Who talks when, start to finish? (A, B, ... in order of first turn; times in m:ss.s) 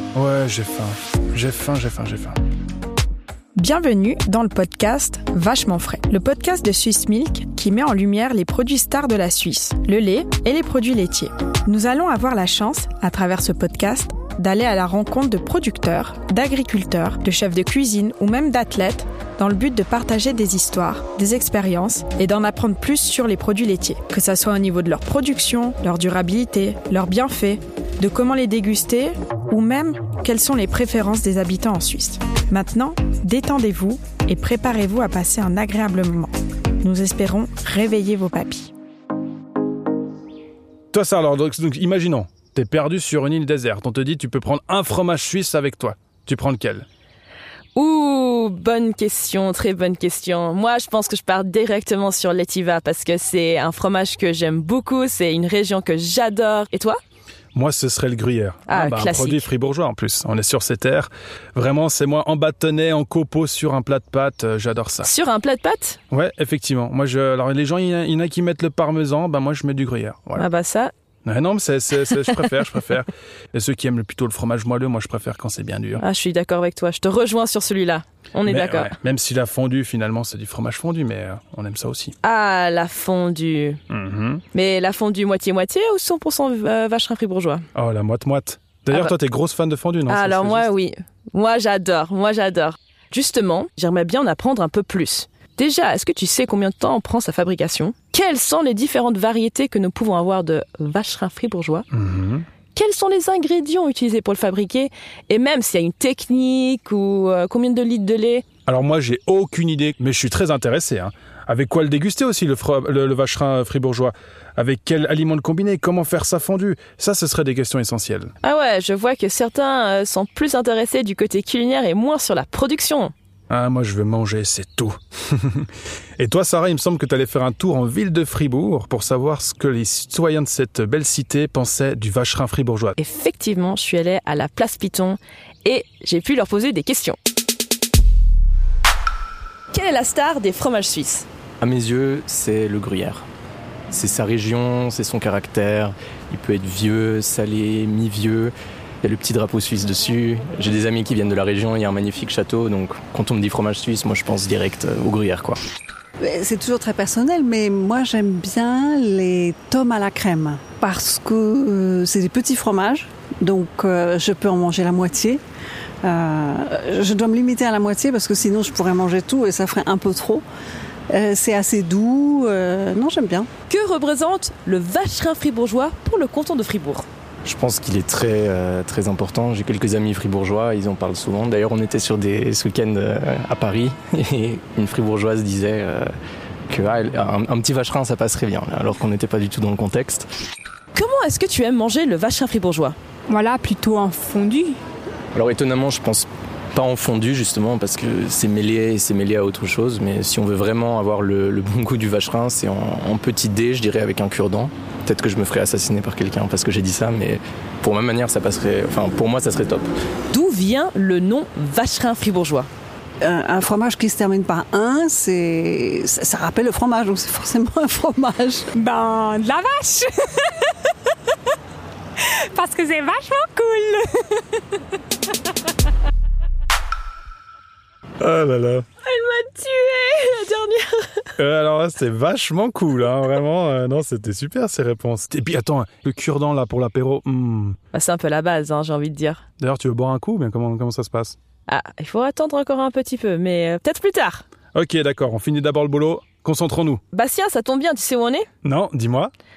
0:00.1-0:02.4 A
0:03.6-0:38.7 B
0:40.9-0:46.8 A
0:47.7-0:57.0 C
0:57.5-1:05.1 A
0:58.7-0:59.4 C
1:05.0-1:06.0 C
1:06.1-1:10.4 A
1:10.4-1:10.9 C
1:11.2-1:16.0 A
1:16.0-1:18.9 C
1:18.4-1:22.1 A
1:22.2-1:23.8 C
1:23.9-1:24.4 A
1:24.5-1:27.6 C
1:27.7-1:30.7 A
1:30.1-1:41.8 C
1:41.9-1:42.4 A
1:42.7-1:48.4 C
1:48.6-1:58.3 A
1:58.4-2:03.1 C
2:03.5-2:13.0 A
2:13.0-2:17.2 C
2:19.7-2:21.2 C
2:21.6-2:23.2 D
2:23.9-2:35.6 D
2:36.2-2:45.4 E
2:46.0-2:50.4 E
2:51.1-2:53.5 E
2:53.7-2:57.0 C
2:57.4-3:06.1 D
3:06.7-3:10.3 D
3:10.9-3:13.0 C
3:13.3-3:14.8 F
3:15.3-3:29.9 D
3:30.3-3:32.7 C
3:33.2-3:38.7 E
3:38.7-3:40.3 F
3:42.2-3:44.4 F
3:48.2-3:48.8 A
3:49.0-3:51.3 C
3:51.4-3:57.8 A
3:57.9-3:59.4 C
3:59.6-4:01.4 A
4:01.7-4:04.4 C
4:04.7-4:07.0 A
4:07.1-4:08.5 C
4:08.6-4:09.3 A